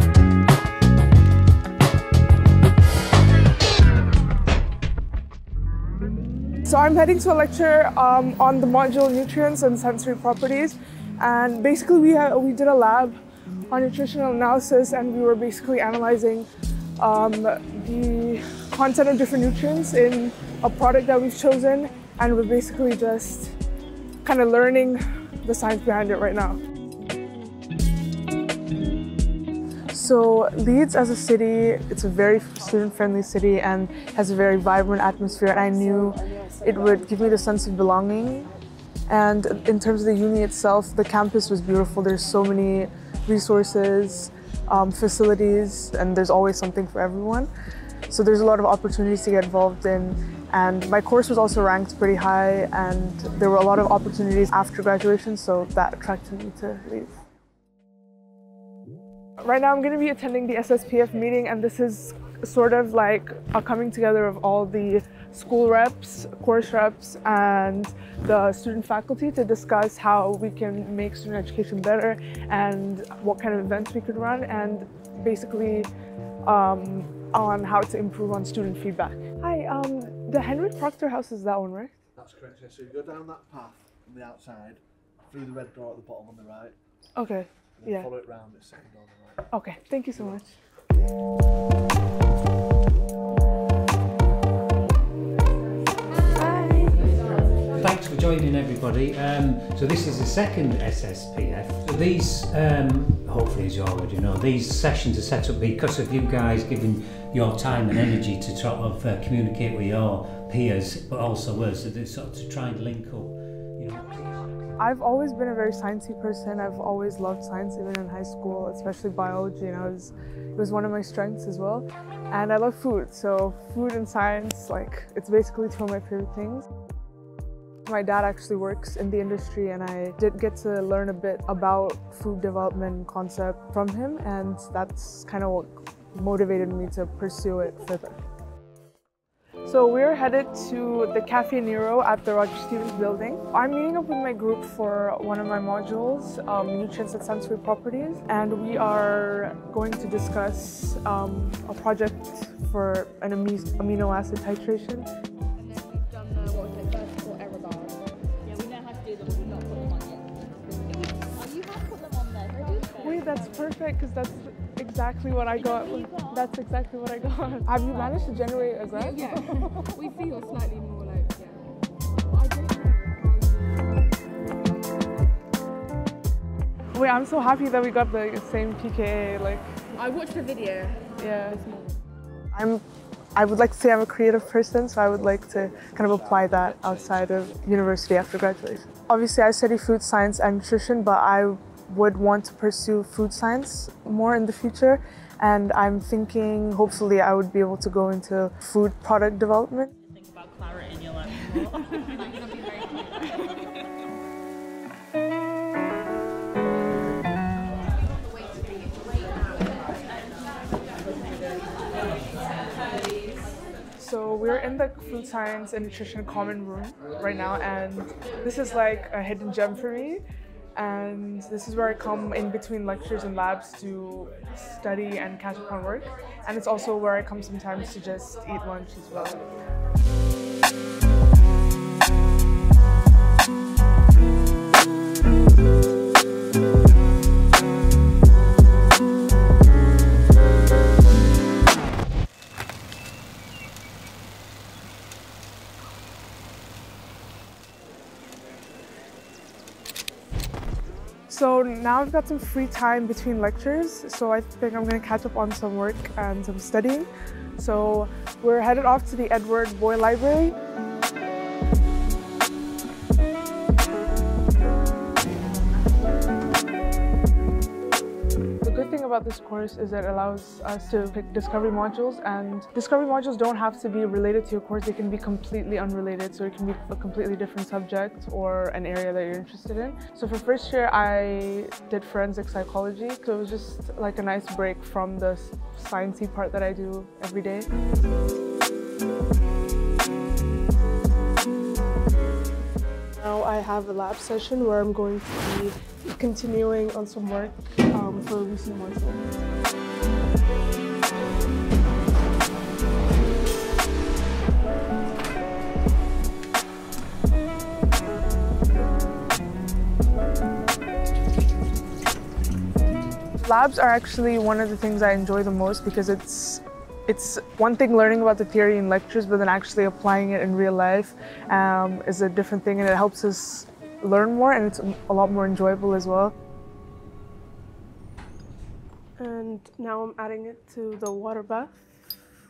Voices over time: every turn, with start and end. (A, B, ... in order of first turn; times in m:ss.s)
0:06.6-0:16.5 A
0:17.0-0:23.6 A
0:24.2-0:26.6 A
0:29.9-0:38.5 A
0:39.1-0:47.5 A
0:48.1-0:57.1 A
0:59.4-1:15.9 A
1:16.4-1:21.9 A
1:22.2-1:26.8 B
1:27.2-1:28.1 A
1:27.8-1:29.4 B
1:29.5-1:30.5 A
1:30.2-1:30.4 B
1:36.3-1:37.1 A
1:37.7-1:54.8 C
1:54.8-2:06.6 A
2:07.8-2:18.2 A
2:19.6-2:35.1 A
2:35.6-2:38.0 D
2:38.6-2:40.1 E
2:41.6-2:43.0 E
2:42.9-2:49.2 A
2:49.0-2:54.6 D
2:56.9-2:59.6 A
2:59.9-3:02.0 D
3:01.2-3:01.6 A
3:02.5-3:02.8 A
3:03.3-3:19.9 A
3:05.1-3:07.5 B
3:20.5-3:21.3 E
3:34.0-3:40.2 A
3:40.7-3:49.4 A
4:11.3-4:20.6 A
4:28.6-4:47.7 A
4:53.2-4:59.2 A
5:13.4-5:26.3 A
5:29.2-5:32.1 A